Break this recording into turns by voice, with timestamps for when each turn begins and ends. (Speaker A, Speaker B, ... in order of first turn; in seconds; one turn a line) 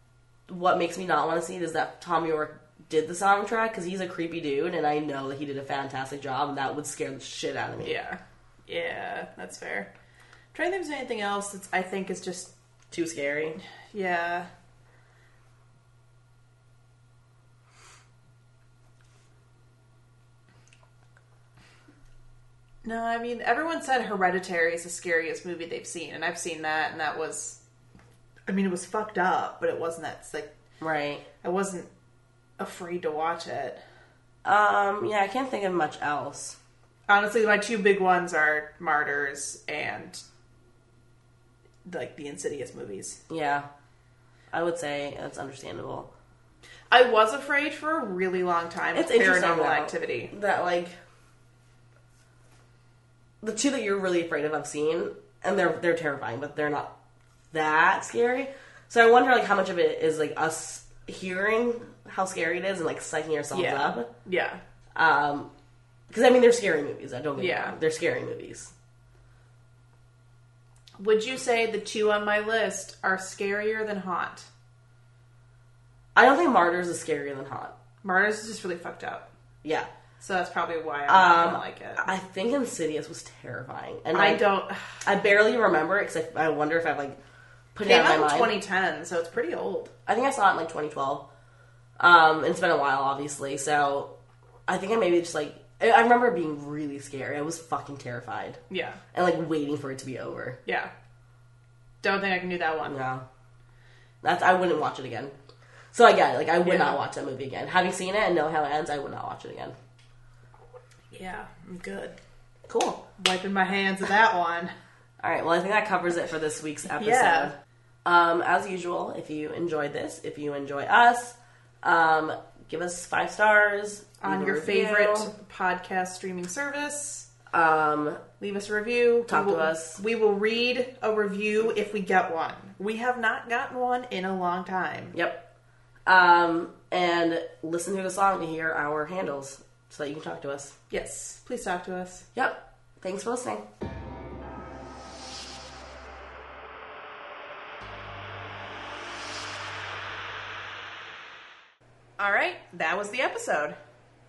Speaker A: 0.5-8.0
Speaker B: 7.8-9.9
Speaker B: 10.5-12.5
Speaker A: 12.9-13.6
Speaker B: 13.9-14.5
Speaker B: 22.8-27.6
Speaker B: 28.5-30.5
Speaker A: 30.8-31.2
Speaker B: 31.4-31.9
Speaker B: 32.6-33.8
Speaker A: 34.4-36.6
Speaker B: 37.1-40.2
Speaker B: 41.8-43.2
Speaker A: 43.3-43.7
Speaker A: 44.5-46.1
Speaker B: 46.9-50.3
Speaker A: 48.9-51.0
Speaker A: 53.4-56.9
Speaker A: 57.5-64.1
Speaker B: 63.5-64.6
Speaker A: 64.9-65.5
Speaker A: 66.1-68.7
Speaker B: 67.4-67.8
Speaker B: 71.0-74.5
Speaker A: 76.1-77.7
Speaker B: 78.0-79.3
Speaker B: 80.2-82.0
Speaker A: 81.1-84.4
Speaker B: 84.1-85.0
Speaker A: 85.0-87.2
Speaker A: 87.7-88.5
Speaker B: 87.8-89.9
Speaker A: 90.0-91.2
Speaker A: 92.0-94.1
Speaker A: 94.7-98.6
Speaker B: 98.7-99.0
Speaker A: 99.1-100.6
Speaker B: 100.7-100.9
Speaker B: 102.0-103.0
Speaker A: 102.8-103.2
Speaker A: 104.2-105.3
Speaker A: 105.9-109.8
Speaker B: 106.6-107.0
Speaker B: 111.1-112.2
Speaker A: 112.7-113.0
Speaker B: 113.2-114.7
Speaker A: 115.2-125.3
Speaker B: 116.9-117.5
Speaker B: 124.2-127.3
Speaker A: 127.5-128.2
Speaker B: 128.4-135.1
Speaker A: 129.3-130.0
Speaker A: 135.1-135.4
Speaker A: 136.1-140.8
Speaker B: 140.9-142.2
Speaker A: 142.3-143.6
Speaker B: 152.2-153.8